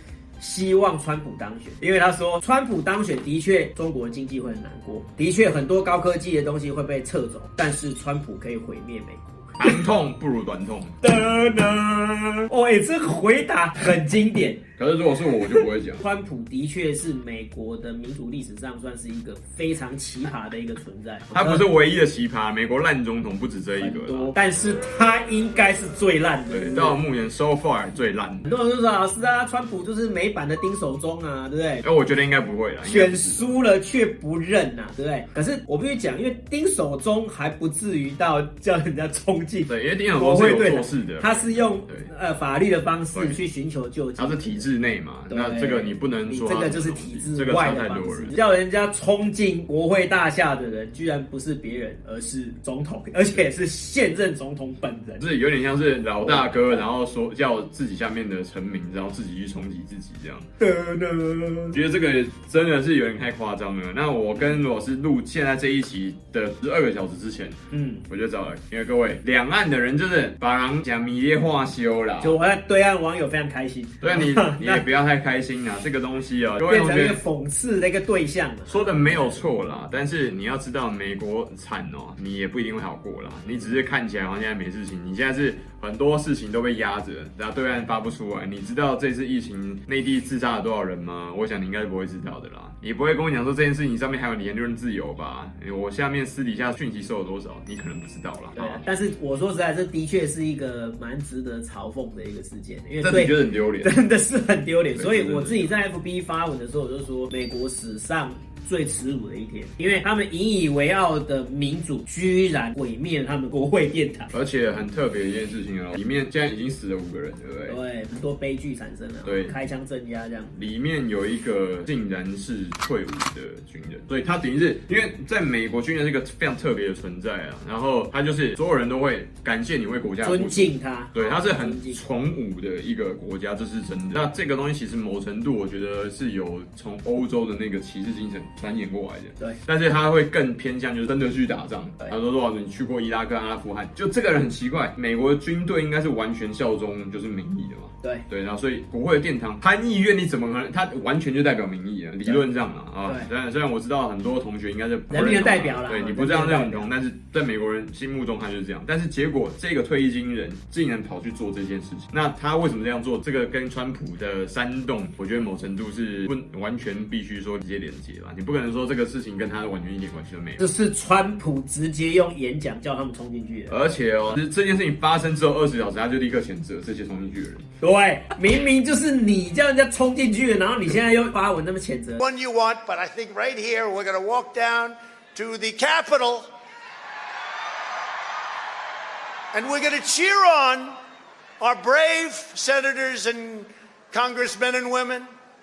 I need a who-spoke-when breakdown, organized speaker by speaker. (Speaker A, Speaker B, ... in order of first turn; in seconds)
Speaker A: 0.4-9.8, 11.0-14.6, 16.0-21.6, 23.8-27.0, 28.5-31.9, 32.8-44.7, 45.3-55.2, 56.2-56.9, 60.6-61.8, 67.7-68.1, 72.2-74.8, 76.7-79.4, 98.6-114.3, 117.7-120.6, 130.2-132.0, 155.1-156.9, 170.6-173.8, 177.8-182.2
Speaker B: 9.6-10.9, 14.8-16.0, 21.3-24.3, 26.5-28.5, 31.8-33.5, 39.7-42.1, 43.1-43.4, 44.2-48.3, 55.2-60.5, 61.7-67.6, 68.1-72.4, 74.0-77.2, 78.7-98.8, 103.0-104.0, 105.0-105.7, 114.3-117.8, 119.2-119.5, 120.6-170.6, 173.7-177.7
Speaker C: 182.2-186.5, 189.5-191.0, 191.6-195.3